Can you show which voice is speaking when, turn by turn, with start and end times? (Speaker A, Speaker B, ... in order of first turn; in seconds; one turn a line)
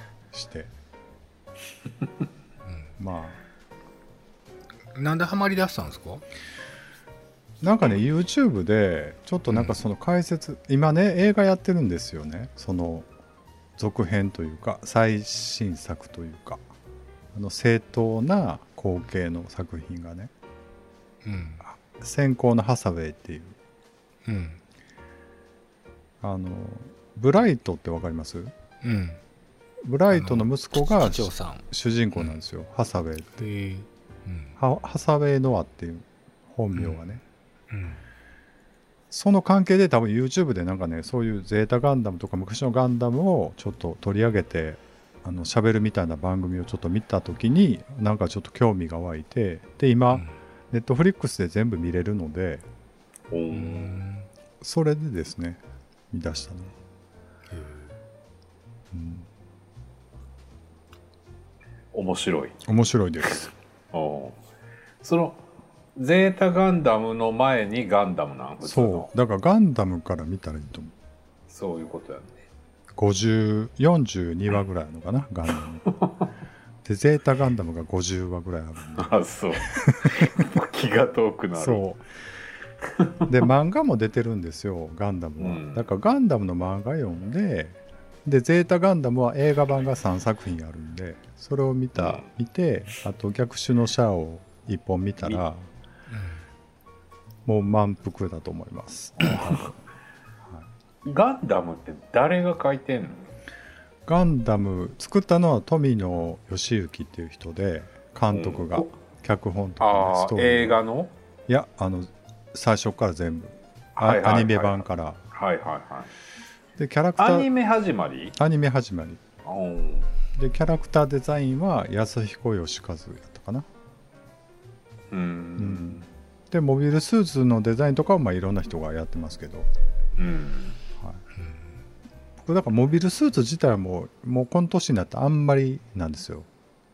Speaker A: 0.3-0.7
Speaker A: 3.0-3.4
Speaker B: 4.9-6.2
Speaker A: 7.6-13.1
Speaker A: 13.8-16.6
Speaker A: 17.3-20.3
Speaker B: 21.2-21.6
Speaker A: 21.7-23.6
Speaker B: 24.2-24.6
Speaker A: 26.2-28.5
Speaker B: 28.8-29.2
Speaker A: 29.8-33.5
Speaker B: 30.1-31.6
Speaker B: 33.4-34.5
Speaker A: 34.6-37.2
Speaker B: 37.7-38.0
Speaker A: 39.1-52.6
Speaker C: 53.3-54.0
Speaker B: 53.5-54.2
Speaker A: 54.6-55.6
Speaker A: 56.1-56.7
Speaker B: 57.5-57.9
Speaker A: 58.9-59.3
Speaker C: 61.9-62.5
Speaker A: 62.6-63.5
Speaker C: 63.9-64.4
Speaker C: 65.0-65.4
Speaker C: 66.0-69.1
Speaker A: 68.6-70.9
Speaker C: 71.5-72.4
Speaker A: 72.9-75.9
Speaker A: 76.8-79.1
Speaker C: 79.0-81.8
Speaker A: 79.7-80.3
Speaker A: 81.5-82.0
Speaker C: 83.0-83.3
Speaker A: 83.3-95.7
Speaker C: 85.4-85.8
Speaker C: 92.0-92.2
Speaker A: 97.5-99.7
Speaker C: 99.2-99.6
Speaker C: 101.0-103.3
Speaker A: 104.0-110.7
Speaker C: 108.3-108.9
Speaker C: 109.8-111.1
Speaker A: 111.5-115.2
Speaker C: 114.0-116.1
Speaker A: 116.8-117.5
Speaker C: 117.2-118.3
Speaker A: 118.4-119.2
Speaker C: 119.4-120.1
Speaker A: 120.3-123.7
Speaker C: 125.1-126.0
Speaker A: 125.6-129.7
Speaker C: 130.2-130.8
Speaker A: 132.4-136.5